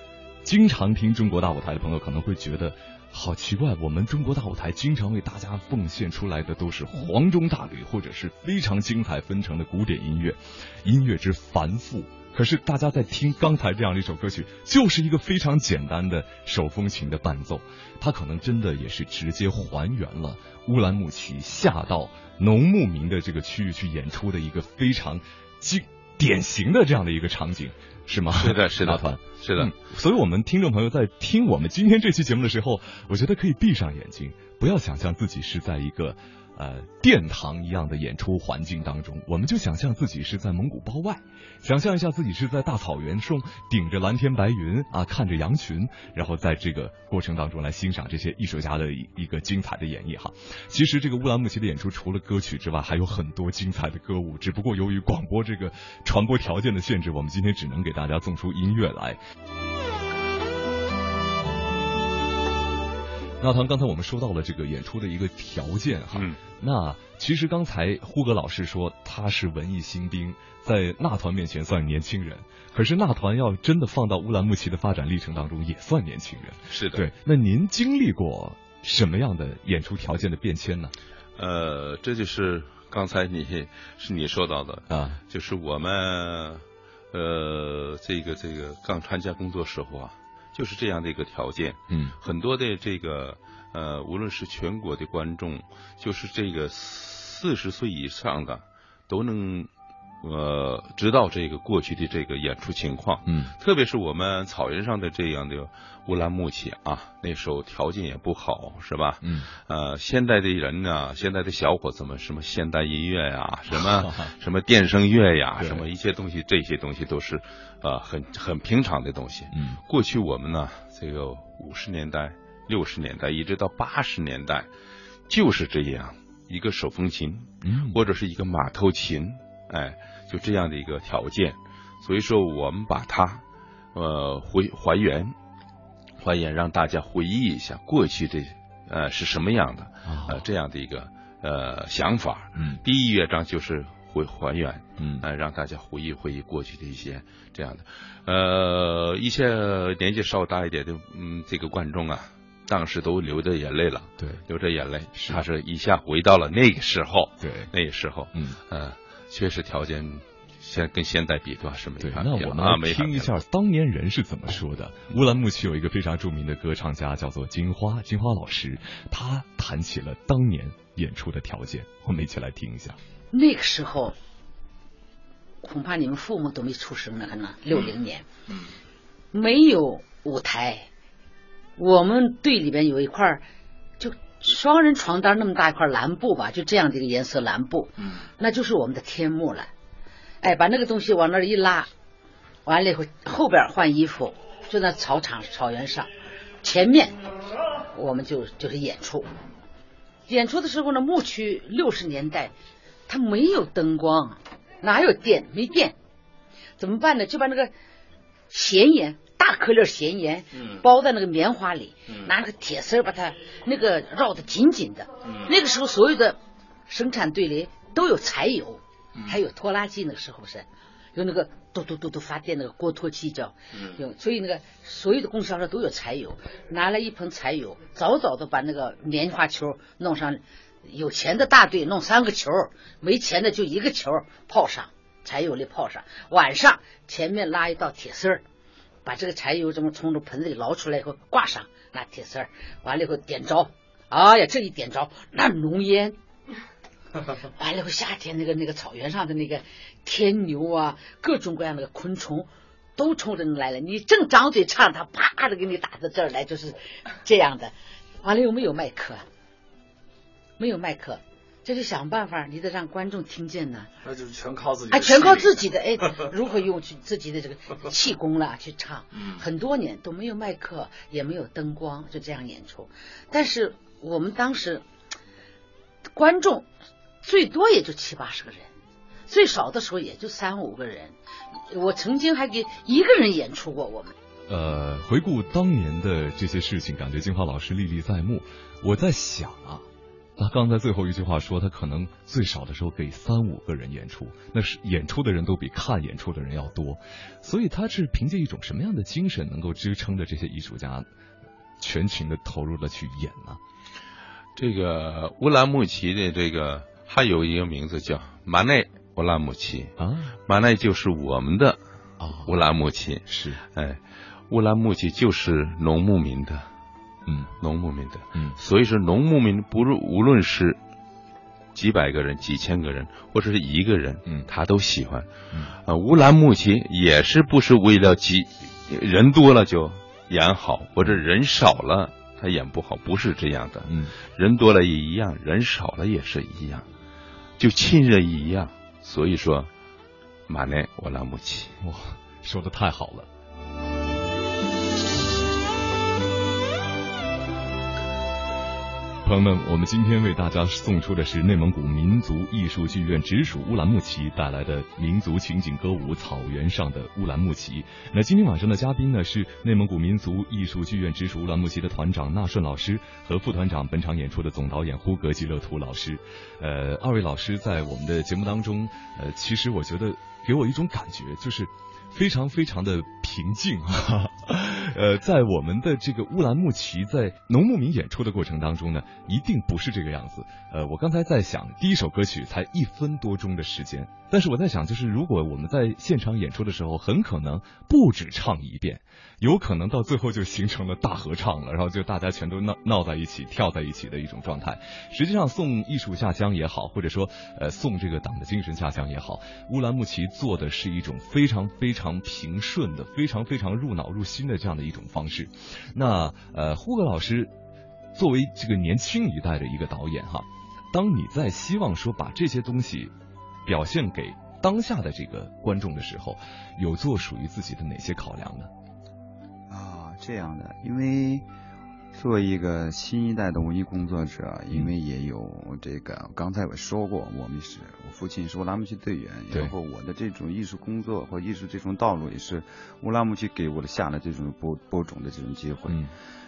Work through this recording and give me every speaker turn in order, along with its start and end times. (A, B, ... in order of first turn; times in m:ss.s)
0:00.4-0:59.2 A
0:28.3-0:29.7 B
1:03.4-1:20.9 A
1:06.1-1:06.4 B
1:16.7-1:17.1 B
1:21.4-1:39.7 B
1:24.9-1:25.2 A
1:31.9-1:32.1 A
1:40.2-2:04.7 B
1:43.2-1:43.5 A
1:49.2-1:49.5 A
1:53.7-1:54.3 A
1:55.6-1:55.8 A
1:59.5-1:59.8 A
2:05.3-2:13.4 B
2:07.6-2:08.0 A
2:13.9-2:15.3 B
2:16.2-2:43.4 B
2:20.0-2:20.4 A
2:22.6-2:22.8 A
2:25.0-2:25.2 A
2:35.1-2:35.4 A
2:37.4-2:37.7 A
2:42.0-2:53.0 A
2:53.3-2:54.1 C
2:55.6-2:58.3 C
2:59.3-3:00.9 C
3:01.8-3:03.4 C
3:04.0-3:09.7 C
3:10.4-3:11.9 C
3:12.6-3:16.1 C
3:16.6-3:17.2 C
3:17.9-3:19.3 C
3:20.3-3:22.5 C
3:23.1-3:26.0 C
3:26.8-3:27.7 C
3:28.5-3:36.4 C
3:30.5-3:30.8 D
3:35.2-3:35.5 D
3:36.9-3:58.4 C
3:59.0-4:06.2 C
4:07.6-4:19.2 C
4:20.6-4:23.9 C
4:24.0-4:25.6 D
4:24.9-4:34.8 C
4:29.1-4:29.4 D
4:36.1-4:36.7 C
4:37.2-4:38.7 C
4:39.3-4:41.2 C
4:41.7-4:44.1 C
4:44.5-4:49.8 A
4:50.4-5:01.1 A
5:01.8-5:03.6 A
5:04.6-5:09.9 B
5:10.0-5:10.4 A
5:10.5-5:11.8 B
5:12.2-5:12.5 A
5:12.4-5:16.7 B
5:13.3-5:13.6 A
5:17.3-5:17.5 A
5:17.6-5:20.8 B
5:21.7-5:25.3 B
5:25.9-5:36.9 B
5:33.8-5:34.1 A
5:37.6-5:39.7 B
5:40.5-5:41.8 B
5:41.8-5:43.3 A
5:49.2-6:47.5 A
6:48.1-6:53.1 A
6:53.6-6:58.7 A
6:59.7-7:01.4 E
7:02.1-7:16.0 E
7:15.9-7:16.1 A